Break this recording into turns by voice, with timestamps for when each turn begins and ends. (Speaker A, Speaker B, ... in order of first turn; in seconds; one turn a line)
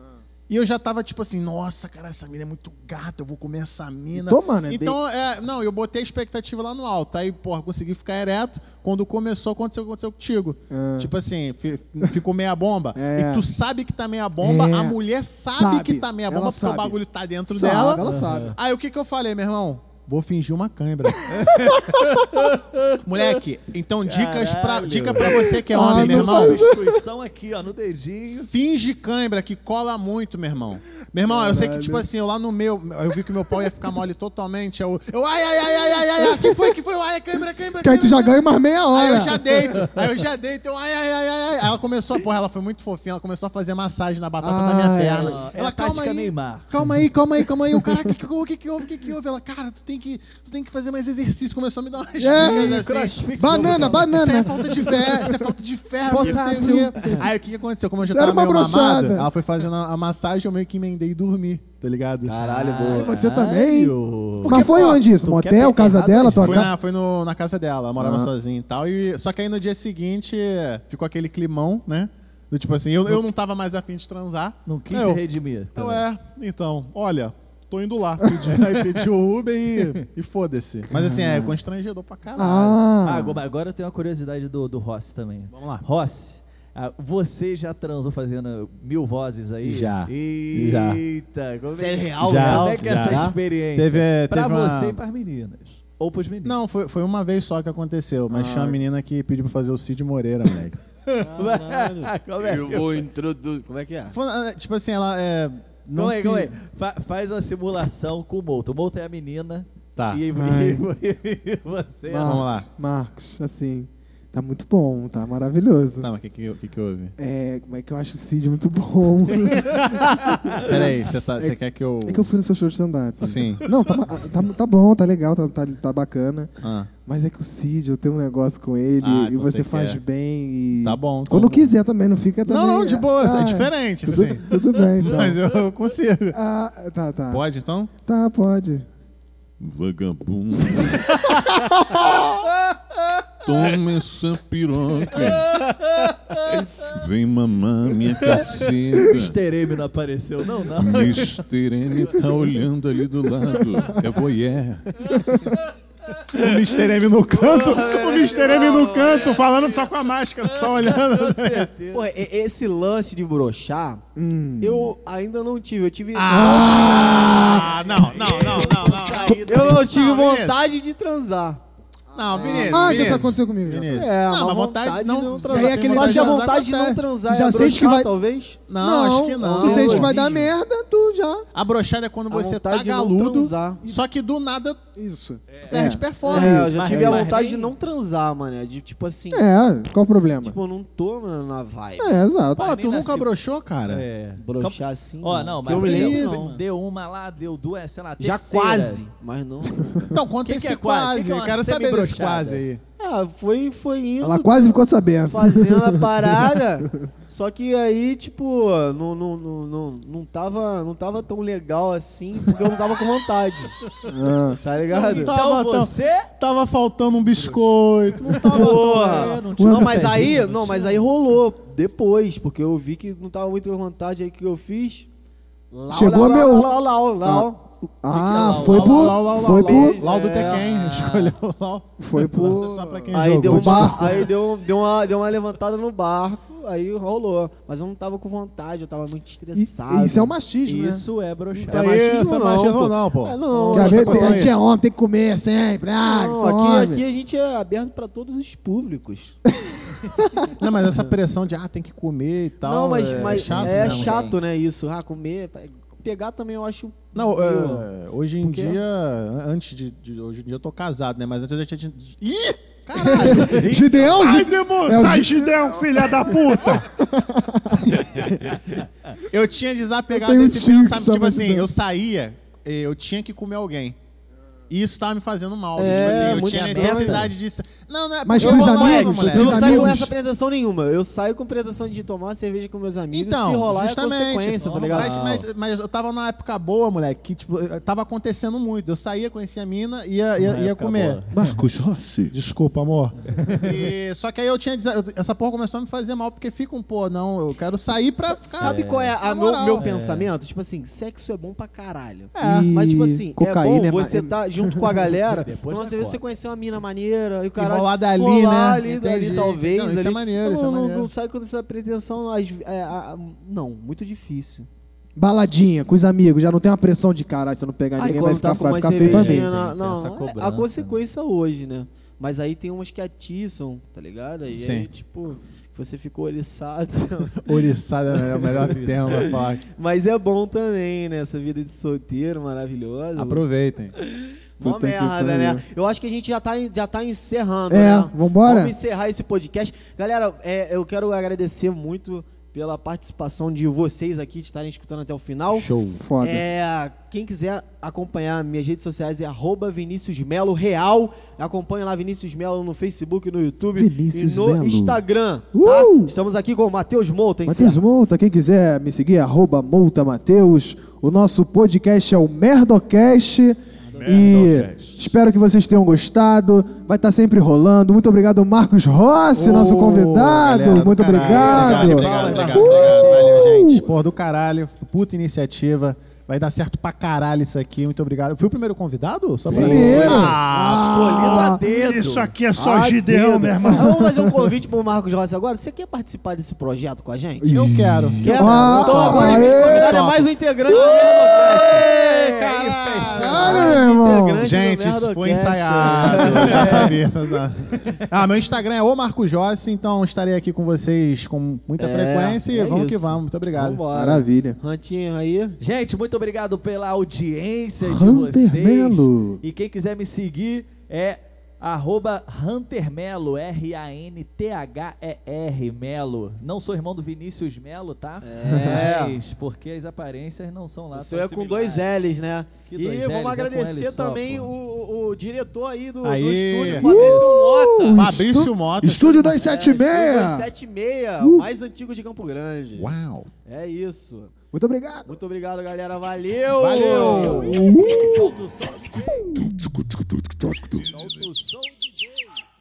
Speaker A: 0.5-21.8
Speaker B: 4.1-5.0
Speaker B: 10.7-11.1
Speaker B: 12.9-13.5
Speaker B: 14.4-15.0
Speaker B: 15.5-18.5
Speaker C: 18.0-18.6
Speaker C: 21.3-23.0
Speaker A: 23.0-26.6
Speaker C: 24.0-28.5
Speaker B: 25.7-27.0
Speaker A: 28.4-62.3
Speaker B: 31.2-32.0
Speaker B: 36.2-36.7
Speaker B: 37.7-39.9
Speaker B: 44.4-45.4
Speaker C: 45.1-46.7
Speaker B: 47.8-48.1
Speaker B: 52.2-52.8
Speaker C: 52.4-54.3
Speaker B: 53.4-55.5
Speaker B: 56.1-57.3
Speaker C: 56.1-56.9
Speaker D: 56.2-57.0
Speaker B: 58.0-59.3
Speaker D: 62.2-63.1
Speaker C: 62.4-66.7
Speaker B: 62.9-66.7
Speaker A: 64.5-65.0
Speaker A: 66.3-75.2
Speaker B: 68.0-68.3
Speaker C: 74.7-76.0
Speaker A: 75.7-82.8
Speaker B: 80.9-81.5
Speaker B: 82.3-83.4
Speaker C: 83.0-96.6
Speaker A: 85.5-85.8
Speaker A: 89.6-91.0
Speaker D: 91.7-93.3
Speaker A: 92.2-95.0
Speaker A: 96.4-100.8
Speaker D: 98.3-98.8
Speaker C: 101.2-103.0
Speaker D: 101.2-104.2
Speaker A: 104.1-106.5
Speaker C: 105.9-112.4
Speaker B: 110.3-110.9
Speaker B: 112.1-116.1
Speaker A: 112.2-112.7
Speaker A: 116.0-117.1
Speaker B: 117.2-135.4
Speaker D: 119.8-120.3
Speaker A: 120.7-122.3
Speaker A: 123.2-123.7
Speaker A: 126.6-126.9
Speaker A: 129.0-130.0
Speaker A: 130.8-131.7
Speaker A: 132.4-136.3
Speaker B: 136.3-137.4
Speaker A: 137.3-137.9
Speaker B: 138.1-138.8
Speaker E: 139.6-141.1
Speaker A: 141.1-141.4
Speaker C: 142.2-142.8
Speaker E: 143.5-145.6
Speaker A: 143.5-145.1
Speaker C: 145.1-146.9
Speaker E: 146.9-149.3
Speaker A: 147.2-148.9
Speaker C: 148.2-151.4
Speaker E: 150.9-153.7
Speaker A: 151.6-154.8
Speaker E: 154.2-154.5
Speaker C: 155.2-155.6
Speaker A: 156.3-161.7
Speaker D: 157.3-159.7
Speaker C: 160.5-162.1
Speaker D: 161.9-164.0
Speaker B: 164.2-164.9
Speaker D: 164.6-167.6
Speaker A: 166.1-170.6
Speaker B: 166.2-167.7
Speaker C: 167.1-169.9
Speaker D: 169.4-171.6
Speaker A: 172.1-177.0
Speaker D: 172.3-173.1
Speaker B: 172.3-174.1
Speaker D: 173.9-178.6
Speaker B: 175.4-176.4
Speaker B: 177.3-178.1
Speaker A: 178.7-180.1
Speaker B: 178.8-181.4
Speaker D: 179.5-180.5
Speaker C: 179.7-180.1
Speaker A: 181.5-184.8
Speaker D: 182.3-183.8
Speaker B: 184.9-187.2
Speaker C: 185.5-185.8
Speaker A: 185.6-186.7
Speaker D: 186.2-189.5
Speaker C: 186.6-187.7
Speaker B: 189.3-190.6
Speaker D: 190.3-192.2
Speaker B: 192.0-192.7
Speaker C: 192.6-193.3
Speaker A: 192.6-194.0
Speaker C: 193.9-199.0
Speaker D: 194.4-196.5
Speaker A: 195.7-196.6
Speaker D: 198.2-200.1
Speaker A: 200.1-202.8
Speaker C: 200.4-202.6
Speaker D: 203.0-213.7
Speaker B: 204.2-206.1
Speaker B: 214.1-214.6
Speaker D: 214.6-215.3
Speaker A: 214.9-219.2
Speaker C: 214.9-216.3
Speaker C: 217.3-217.6
Speaker C: 218.2-221.1
Speaker D: 218.4-225.1
Speaker B: 219.6-220.3
Speaker D: 225.7-227.6
Speaker B: 225.9-230.0
Speaker C: 228.1-229.2
Speaker A: 228.7-234.2
Speaker D: 229.4-230.7
Speaker C: 230.4-231.3
Speaker B: 232.0-234.2
Speaker D: 233.1-240.3
Speaker B: 239.5-241.1
Speaker C: 240.6-241.8
Speaker D: 241.5-244.5
Speaker A: 241.7-244.5
Speaker B: 243.7-247.0
Speaker D: 246.0-249.4
Speaker A: 250.5-254.3
Speaker D: 252.6-258.8
Speaker C: 253.1-254.4
Speaker A: 257.1-264.5
Speaker B: 262.9-268.4
Speaker C: 263.2-264.1
Speaker F: 264.1-266.8
Speaker A: 269.1-274.0
Speaker B: 270.1-271.7
Speaker A: 274.7-280.0
Speaker D: 275.7-277.3
Speaker C: 275.8-277.3
Speaker B: 278.2-280.1
Speaker D: 278.4-285.4
Speaker A: 283.1-291.2
Speaker C: 284.6-285.4
Speaker C: 290.4-291.6
Speaker B: 291.3-292.2
Speaker E: 291.4-292.4
Speaker A: 292.3-299.9
Speaker C: 293.3-293.7
Speaker D: 298.2-314.7
Speaker C: 298.5-299.2
Speaker C: 299.7-300.3
Speaker A: 302.3-302.7
Speaker B: 302.4-305.1
Speaker C: 305.3-306.3
Speaker A: 307.5-311.1
Speaker B: 315.2-319.5
Speaker D: 318.0-333.5
Speaker C: 319.0-321.0
Speaker A: 324.5-324.9
Speaker A: 327.3-329.6
Speaker C: 328.6-329.4
Speaker A: 333.1-333.9
Speaker D: 334.0-357.8
Speaker B: 334.6-335.6
Speaker B: 337.7-338.7
Speaker A: 345.5-346.0
Speaker B: 346.0-346.4
Speaker B: 353.8-356.1
Speaker B: 357.4-373.9
Speaker C: 363.8-365.1
Speaker A: 369.3-381.4
Speaker C: 371.3-373.5
Speaker D: 371.9-372.5
Speaker B: 379.4-381.6
Speaker C: 379.4-382.3
Speaker F: 381.2-383.9
Speaker D: 382.6-387.5
Speaker B: 383.1-384.3
Speaker B: 387.4-390.0
Speaker A: 387.5-388.5
Speaker D: 388.2-391.9
Speaker C: 388.5-389.5
Speaker A: 389.1-393.8
Speaker C: 390.7-393.8
Speaker D: 393.0-397.0
Speaker B: 393.0-394.4
Speaker A: 394.4-403.8
Speaker B: 395.8-396.7
Speaker C: 396.3-396.9
Speaker D: 401.8-405.6
Speaker B: 403.9-404.6
Speaker C: 405.6-422.0
Speaker B: 407.8-409.4
Speaker D: 418.2-419.2
Speaker D: 420.9-428.0
Speaker C: 422.6-424.5
Speaker A: 426.0-426.9
Speaker C: 426.6-427.5
Speaker B: 426.8-430.5
Speaker A: 427.9-429.4
Speaker D: 429.4-432.9
Speaker B: 431.2-431.5
Speaker A: 432.7-433.3
Speaker D: 433.4-434.3
Speaker B: 434.5-435.1
Speaker D: 435.1-437.6
Speaker A: 436.5-437.6
Speaker C: 437.0-439.4
Speaker B: 437.3-438.3
Speaker C: 440.8-442.4